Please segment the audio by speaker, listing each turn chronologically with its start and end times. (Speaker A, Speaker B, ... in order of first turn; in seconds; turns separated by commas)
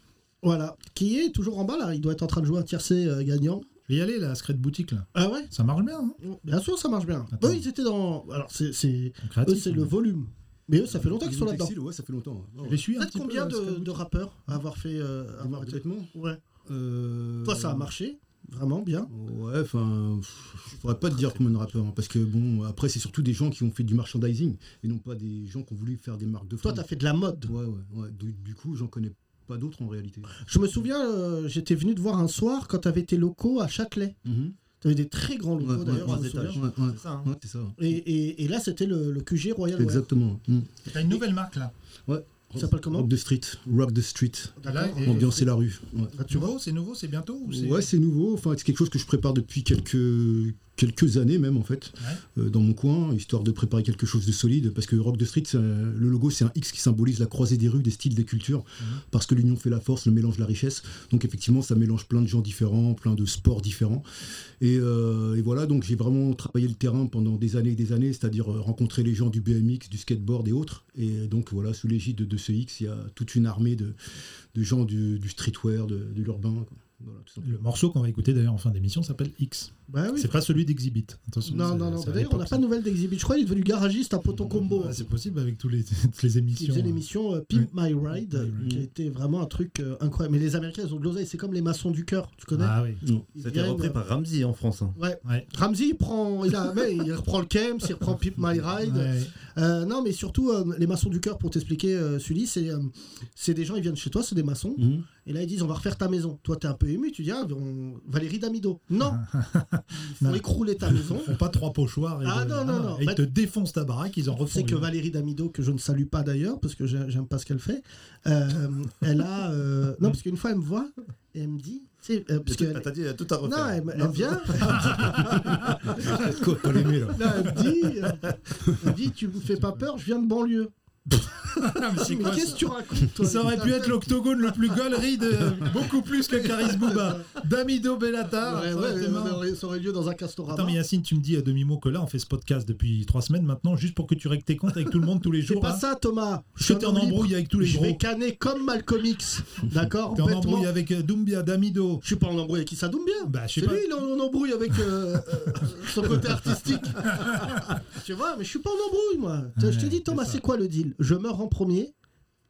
Speaker A: 0.4-3.6, Speaker B: 3.9-6.2, Speaker A: 5.1-5.5, Speaker A: 6.2-11.7, Speaker B: 7.4-7.6, Speaker B: 9.2-9.9, Speaker C: 10.8-12.8, Speaker B: 12.6-14.0, Speaker A: 12.9-16.4, Speaker C: 15.4-16.1, Speaker C: 16.6-17.9, Speaker A: 17.4-19.1, Speaker C: 19.1-26.9, Speaker D: 20.9-21.4, Speaker A: 26.6-27.5, Speaker C: 27.4-30.3, Speaker A: 30.4-34.1, Speaker C: 34.2-34.5, Speaker A: 34.8-36.6, Speaker C: 35.6-37.9, Speaker D: 35.9-37.3, Speaker A: 37.8-40.0, Speaker C: 39.8-40.7, Speaker B: 40.9-41.7, Speaker C: 42.1-46.1, Speaker A: 42.5-43.1, Speaker A: 44.6-45.5, Speaker B: 44.6-45.3, Speaker A: 46.1-46.5, Speaker B: 46.3-47.9, Speaker C: 47.5-64.0, Speaker C: 64.6-77.6, Speaker B: 77.4-82.6, Speaker A: 79.9-80.3, Speaker A: 81.4-85.0, Speaker C: 84.3-85.0, Speaker B: 84.7-88.7, Speaker A: 86.5-92.8, Speaker C: 88.6-88.9, Speaker B: 92.5-93.0, Speaker A: 93.3-94.0, Speaker D: 93.4-95.0, Speaker A: 95.0-109.2, Speaker B: 98.8-99.3, Speaker C: 104.8-105.0, Speaker B: 109.1-110.4, Speaker A: 109.9-111.3, Speaker B: 111.2-114.9, Speaker A: 112.2-113.2, Speaker A: 114.3-122.9, Speaker D: 122.5-125.6, Speaker A: 123.4-125.5, Speaker C: 124.6-127.7, Speaker A: 127.1-130.7, Speaker B: 131.1-132.6, Speaker A: 131.9-134.2, Speaker B: 133.2-139.4, Speaker A: 136.3-137.3, Speaker A: 138.4-140.8, Speaker B: 140.5-145.8, Speaker A: 145.4-150.7, Speaker B: 146.6-148.0, Speaker B: 150.1-152.0, Speaker A: 152.0-161.9, Speaker B: 153.2-154.0, Speaker B: 157.2-157.6, Speaker B: 159.6-160.4